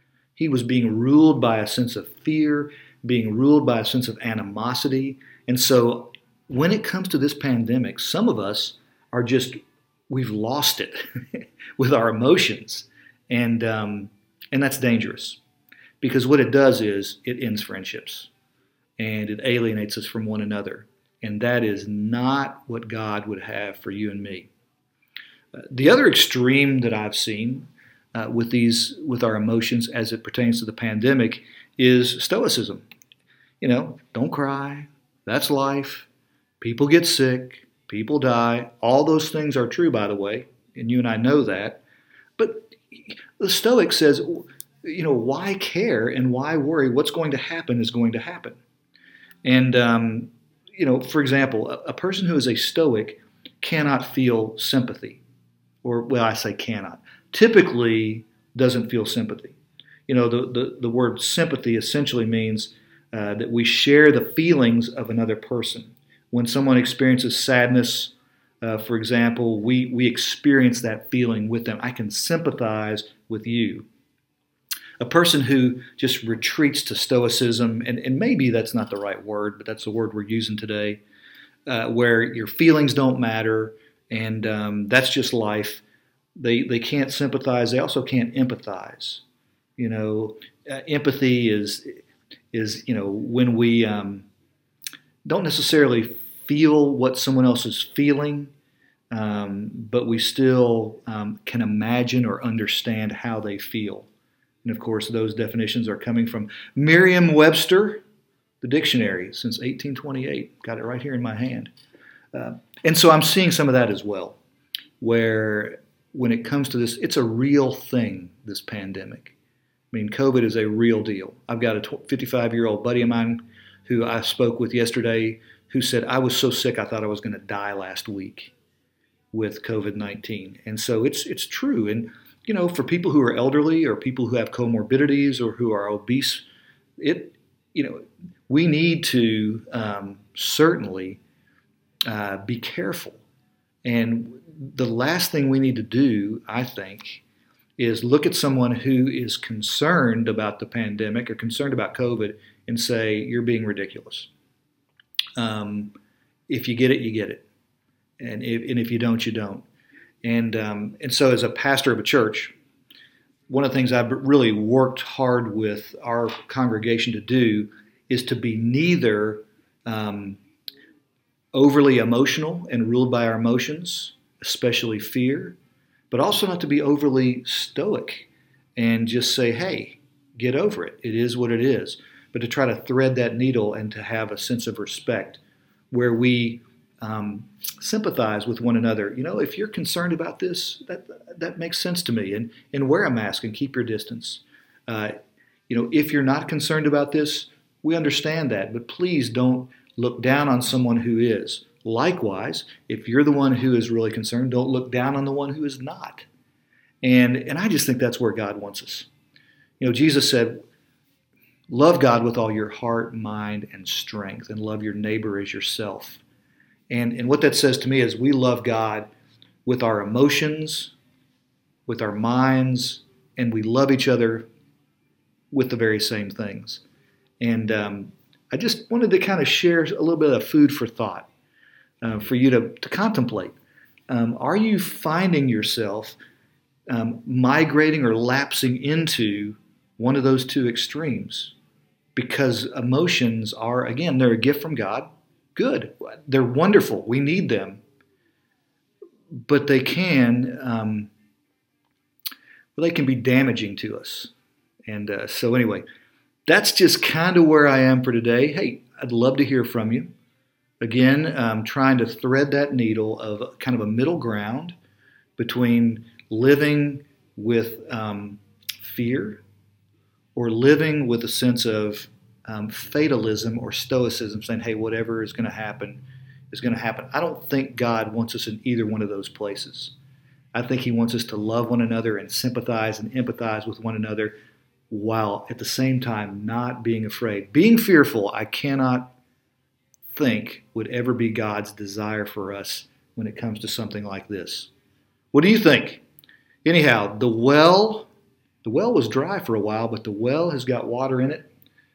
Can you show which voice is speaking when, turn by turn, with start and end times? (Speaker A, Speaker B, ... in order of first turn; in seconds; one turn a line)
Speaker A: 0.4-9.6
Speaker A: 10.1-15.4
Speaker A: 16.0-18.3
Speaker A: 19.0-24.5
Speaker A: 25.6-32.9
Speaker A: 33.6-36.1
Speaker A: 36.6-41.8
Speaker A: 42.4-48.6
Speaker A: 49.4-55.2
Speaker A: 55.8-73.9
Speaker A: 75.0-81.0
Speaker A: 81.7-85.8
Speaker A: 86.4-89.2
Speaker A: 89.8-94.3
Speaker A: 95.2-98.5
Speaker A: 99.1-104.1
Speaker A: 104.6-108.0
Speaker A: 108.6-111.7
Speaker A: 112.3-114.4
Speaker A: 115.0-119.4
Speaker A: 119.9-128.5
Speaker A: 129.3-136.5
Speaker A: 137.0-141.2
Speaker A: 142.1-143.2
Speaker A: 143.8-147.2
Speaker A: 147.8-154.3
Speaker A: 155.4-155.9
Speaker A: 156.5-157.4
Speaker A: 158.2-159.7
Speaker A: 160.2-162.5
Speaker A: 163.5-170.4
Speaker A: 171.5-175.6
Speaker A: 176.1-195.2
Speaker A: 195.7-206.3
Speaker A: 207.0-209.1
Speaker A: 209.8-210.7
Speaker A: 211.7-216.2
Speaker A: 216.9-219.1
Speaker A: 219.7-220.9
Speaker A: 221.9-224.5
Speaker A: 225.5-226.8
Speaker A: 227.4-231.3
Speaker A: 232.0-233.6
Speaker A: 234.1-236.2
Speaker A: 236.9-241.6
Speaker A: 242.2-247.8
Speaker A: 249.3-251.1
Speaker A: 252.8-254.3
Speaker A: 254.9-255.9
Speaker A: 256.5-260.1
Speaker A: 260.8-264.7
Speaker A: 265.4-269.4
Speaker A: 270.4-279.9
Speaker A: 280.5-284.4
Speaker A: 284.9-289.1
Speaker A: 290.1-294.7
Speaker A: 295.3-296.0
Speaker A: 296.6-298.1
Speaker A: 298.6-301.5